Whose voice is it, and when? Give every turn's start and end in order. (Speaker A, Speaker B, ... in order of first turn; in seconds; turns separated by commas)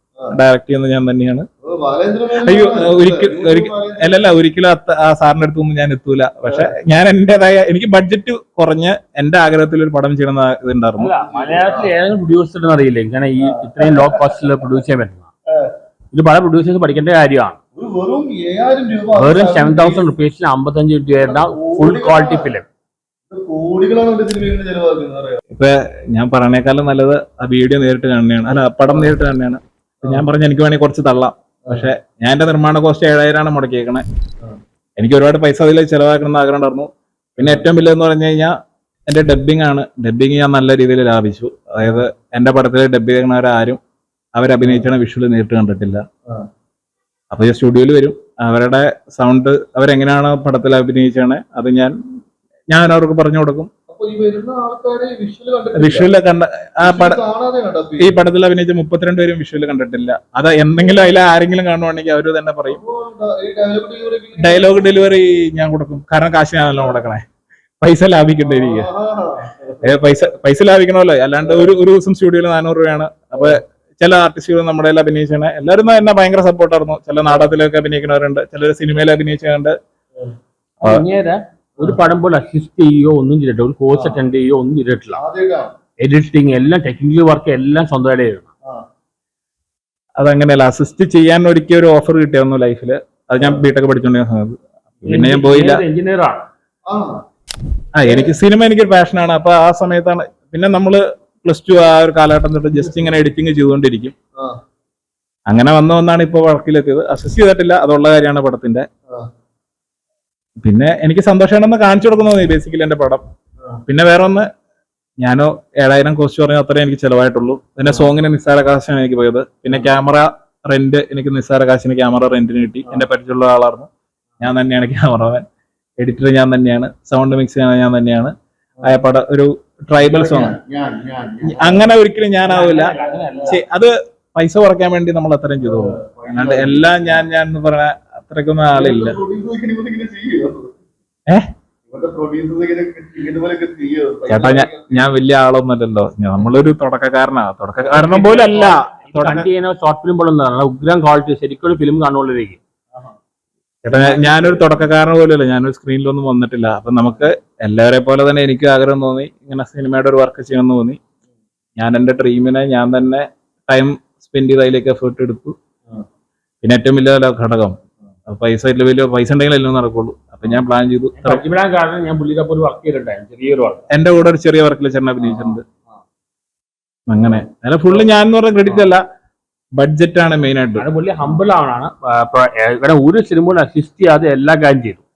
Speaker A: 0.3-1.4, Speaker B: 1.6-4.2, Speaker A: 2.4-11.1, Speaker B: 6.5-6.7, Speaker C: 11.0-15.3, Speaker B: 11.2-11.9, Speaker B: 13.4-14.4, Speaker C: 16.1-17.6, Speaker B: 17.8-20.1, Speaker C: 19.2-22.6, Speaker B: 21.2-22.5, Speaker B: 23.3-25.4, Speaker A: 25.5-34.0, Speaker A: 35.0-38.5, Speaker B: 37.4-37.7, Speaker A: 39.1-43.8, Speaker A: 44.3-46.0, Speaker B: 44.6-44.9, Speaker A: 47.3-51.9, Speaker A: 52.7-53.7, Speaker B: 53.9-56.1, Speaker A: 55.7-57.2, Speaker B: 56.8-58.2, Speaker A: 58.0-62.8, Speaker B: 62.7-64.9, Speaker A: 64.4-67.2, Speaker A: 67.8-68.9, Speaker B: 68.4-70.0, Speaker A: 69.8-79.7, Speaker C: 80.8-85.2, Speaker B: 83.9-84.2, Speaker B: 85.1-85.7, Speaker C: 86.0-88.5, Speaker A: 90.2-95.8, Speaker C: 95.0-96.5, Speaker B: 96.9-97.2, Speaker A: 97.9-104.1, Speaker B: 98.0-98.3, Speaker A: 105.5-108.8, Speaker A: 110.6-113.2, Speaker A: 113.9-114.5, Speaker A: 115.2-123.9, Speaker B: 117.8-118.1, Speaker A: 124.4-125.4, Speaker A: 126.0-128.3, Speaker A: 128.8-130.6, Speaker B: 130.0-131.9, Speaker A: 131.4-132.9, Speaker C: 132.4-133.6, Speaker B: 132.8-133.5, Speaker A: 133.4-139.2, Speaker B: 135.6-137.2, Speaker B: 138.7-140.7, Speaker B: 141.9-145.0, Speaker A: 144.3-149.5, Speaker C: 147.8-152.6, Speaker A: 153.8-161.0, Speaker B: 153.9-154.8, Speaker A: 161.8-165.5, Speaker A: 166.6-167.7, Speaker A: 168.3-171.4, Speaker C: 171.2-173.8, Speaker A: 173.9-175.6, Speaker B: 175.2-176.0, Speaker A: 177.1-179.0, Speaker A: 179.8-180.9, Speaker C: 180.8-185.0